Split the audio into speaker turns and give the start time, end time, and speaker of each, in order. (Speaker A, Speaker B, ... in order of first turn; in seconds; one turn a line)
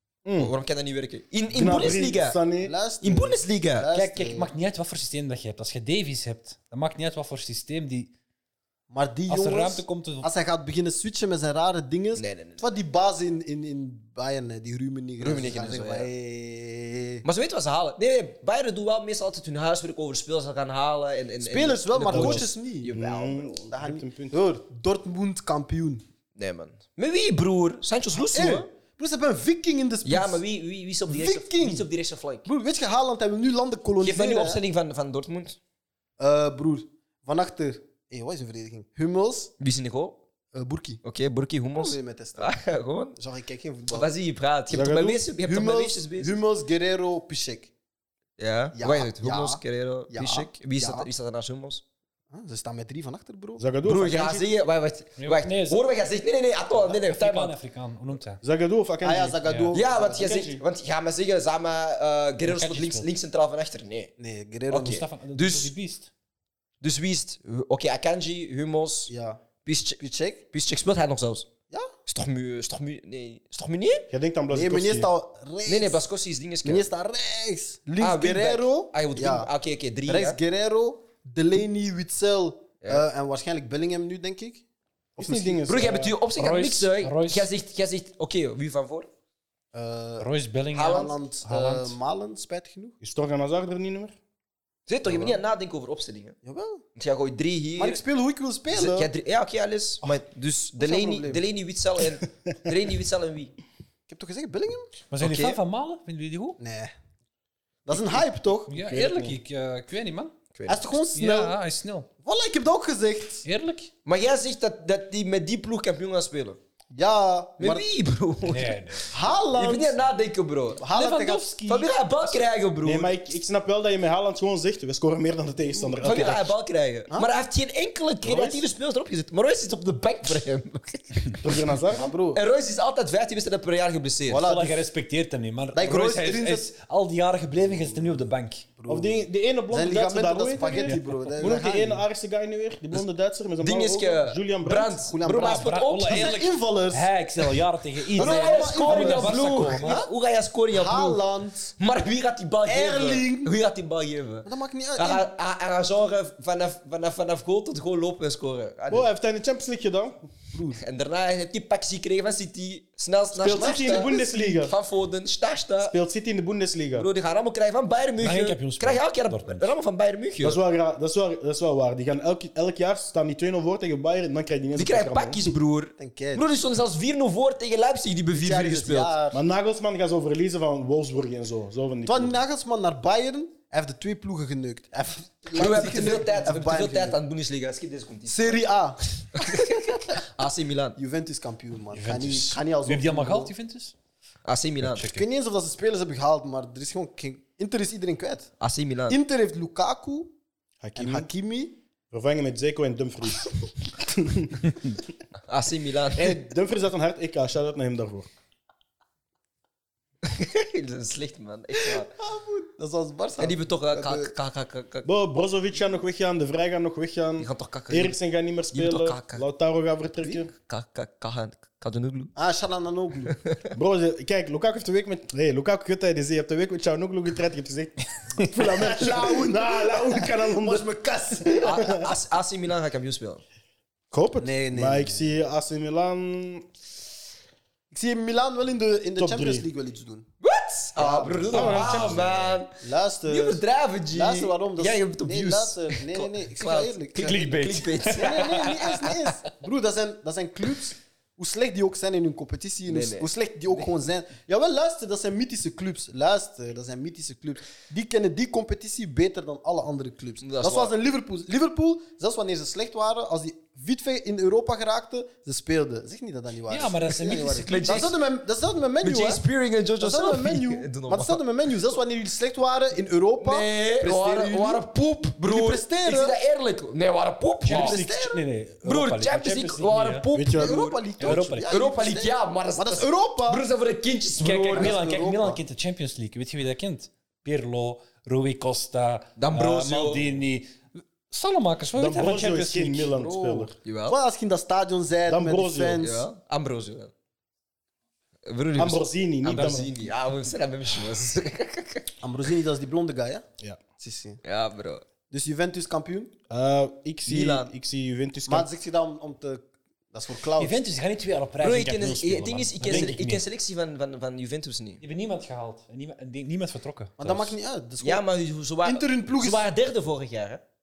Speaker A: 0.2-0.5
Speaker B: 0.3-2.4
Speaker A: 1.5-2.7
Speaker C: 2.6-4.5
Speaker B: 3.0-3.9
Speaker D: 3.9-8.1
Speaker C: 8.9-17.2
Speaker D: 9.3-10.3
Speaker B: 12.2-12.6
Speaker B: 15.2-16.1
Speaker B: 17.2-23.5
Speaker C: 21.4-26.0
Speaker A: 22.1-24.4
Speaker B: 26.4-28.6
Speaker C: 28.2-30.4
Speaker B: 30.0-32.5
Speaker C: 31.1-31.9
Speaker C: 32.4-34.6
Speaker B: 34.0-35.6
Speaker C: 36.2-39.5
Speaker B: 39.6-40.2
Speaker C: 40.5-41.0
Speaker B: 41.0-43.2
Speaker C: 41.8-42.5
Speaker C: 43.1-44.1
Speaker B: 43.9-46.3
Speaker A: 44.7-45.2
Speaker C: 45.4-47.7
Speaker B: 48.4-51.8
Speaker C: 48.7-51.1
Speaker C: 52.3-53.6
Speaker A: 53.6-54.4
Speaker B: 53.8-57.5
Speaker D: 55.2-55.8
Speaker D: 56.8-58.4
Speaker A: 58.4-60.6
Speaker C: 59.0-60.3
Speaker B: 59.7-64.1
Speaker D: 62.4-63.1
Speaker C: 64.2-65.0
Speaker B: 64.7-65.7
Speaker D: 64.8-66.1
Speaker B: 66.8-69.1
Speaker C: 69.1-69.4
Speaker B: 69.6-70.0
Speaker C: 70.0-70.4
Speaker B: 70.5-71.5
Speaker B: 72.0-74.1
Speaker A: 74.1-75.1
Speaker C: 74.5-76.0
Speaker B: 75.7-76.9
Speaker C: 76.6-79.5
Speaker B: 78.0-80.4
Speaker C: 80.0-84.6
Speaker C: 85.2-85.7
Speaker A: 85.2-86.2
Speaker B: 85.6-89.1
Speaker D: 86.3-87.5
Speaker C: 89.7-93.0
Speaker D: 90.2-92.0
Speaker B: 90.7-91.1
Speaker A: 93.0-94.2
Speaker B: 94.9-96.3
Speaker C: 95.0-95.4
Speaker C: 96.4-96.8
Speaker B: 97.0-98.0
Speaker C: 97.8-99.1
Speaker B: 98.7-103.5
Speaker C: 100.8-101.4
Speaker C: 104.1-104.9
Speaker D: 105.1-106.6
Speaker B: 105.2-105.5
Speaker C: 106.6-106.9
Speaker C: 107.8-108.7
Speaker D: 108.7-110.3
Speaker A: 108.7-109.4
Speaker C: 110.7-111.5
Speaker D: 111.1-112.1
Speaker C: 112.2-113.4
Speaker D: 113.4-113.9
Speaker B: 114.0-116.6
Speaker C: 116.9-117.8
Speaker B: 117.6-120.8
Speaker D: 118.5-119.1
Speaker C: 119.1-120.0
Speaker C: 120.8-121.9
Speaker D: 120.9-121.9
Speaker B: 121.7-123.1
Speaker A: 122.8-126.5
Speaker C: 125.7-126.4
Speaker B: 126.0-131.7
Speaker A: 128.2-128.7
Speaker A: 131.4-132.1
Speaker C: 131.9-132.4
Speaker B: 132.3-134.4
Speaker C: 134.3-134.8
Speaker D: 134.4-138.7
Speaker C: 135.7-136.7
Speaker C: 138.8-142.0
Speaker A: 138.9-145.0
Speaker D: 140.8-141.2
Speaker B: 143.6-146.4
Speaker C: 145.1-147.1
Speaker D: 145.4-150.0
Speaker C: 148.1-150.1
Speaker B: 148.1-151.2
Speaker C: 150.7-151.7
Speaker B: 151.8-159.1
Speaker C: 152.6-153.5
Speaker C: 154.4-155.3
Speaker A: 158.9-160.3
Speaker C: 160.5-160.8
Speaker B: 160.7-165.9
Speaker A: 163.3-164.8
Speaker C: 163.5-164.6
Speaker A: 165.8-167.1
Speaker B: 166.9-170.6
Speaker D: 168.2-169.7
Speaker A: 170.4-175.6
Speaker B: 174.8-179.1
Speaker C: 176.0-176.4
Speaker C: 178.3-179.4
Speaker A: 179.3-182.4
Speaker C: 182.0-187.2
Speaker B: 185.5-188.6
Speaker C: 188.3-189.0
Speaker B: 189.3-191.0
Speaker C: 191.0-193.5
Speaker D: 191.9-193.9
Speaker B: 194.4-195.1
Speaker D: 194.8-195.2
Speaker C: 195.0-198.5
Speaker B: 198.6-199.2
Speaker C: 199.1-200.3
Speaker A: 200.8-201.3
Speaker C: 200.9-201.8
Speaker A: 202.1-204.7
Speaker B: 205.5-206.4
Speaker A: 206.1-208.3
Speaker B: 210.2-212.1
Speaker C: 211.8-214.3
Speaker B: 213.4-215.1
Speaker A: 215.0-220.5
Speaker B: 217.4-218.1
Speaker B: 218.7-219.4
Speaker B: 220.5-222.3
Speaker C: 222.3-223.4
Speaker B: 223.3-223.7
Speaker A: 223.7-230.9
Speaker C: 228.6-231.9
Speaker B: 231.6-233.4
Speaker A: 234.1-236.7
Speaker C: 234.4-235.3
Speaker C: 237.9-240.3
Speaker A: 239.2-239.7
Speaker B: 240.4-248.8
Speaker C: 241.0-241.8
Speaker A: 241.5-242.5
Speaker D: 241.6-242.3
Speaker C: 242.8-247.5
Speaker D: 247.2-249.1
Speaker C: 248.0-269.4
Speaker B: 252.9-253.9
Speaker B: 260.4-260.9
Speaker D: 266.7-268.1
Speaker B: 267.6-268.2
Speaker B: 269.0-271.4
Speaker C: 270.0-274.8
Speaker B: 273.4-278.0
Speaker C: 275.4-276.4
Speaker D: 277.6-280.3
Speaker C: 277.7-278.4
Speaker B: 278.8-285.0
Speaker A: 280.3-280.8
Speaker C: 280.5-283.6
Speaker D: 281.2-281.7
Speaker D: 284.4-293.1
Speaker C: 284.7-285.6
Speaker B: 289.4-290.3
Speaker A: 291.9-293.8
Speaker C: 293.1-296.2
Speaker B: 293.8-294.2
Speaker A: 295.3-296.0
Speaker B: 296.0-297.1
Speaker B: 298.4-302.1
Speaker A: 298.8-299.9
Speaker D: 299.6-299.9
Speaker C: 302.2-303.4
Speaker C: 304.0-304.4
Speaker B: 304.4-305.0
Speaker C: 305.3-306.3
Speaker A: 306.5-308.7
Speaker B: 307.2-307.7
Speaker C: 308.5-310.8
Speaker D: 310.6-313.4
Speaker B: 311.6-315.0
Speaker A: 312.8-313.2
Speaker D: 315.0-317.5
Speaker C: 317.2-318.2
Speaker B: 318.0-320.6
Speaker C: 318.8-319.7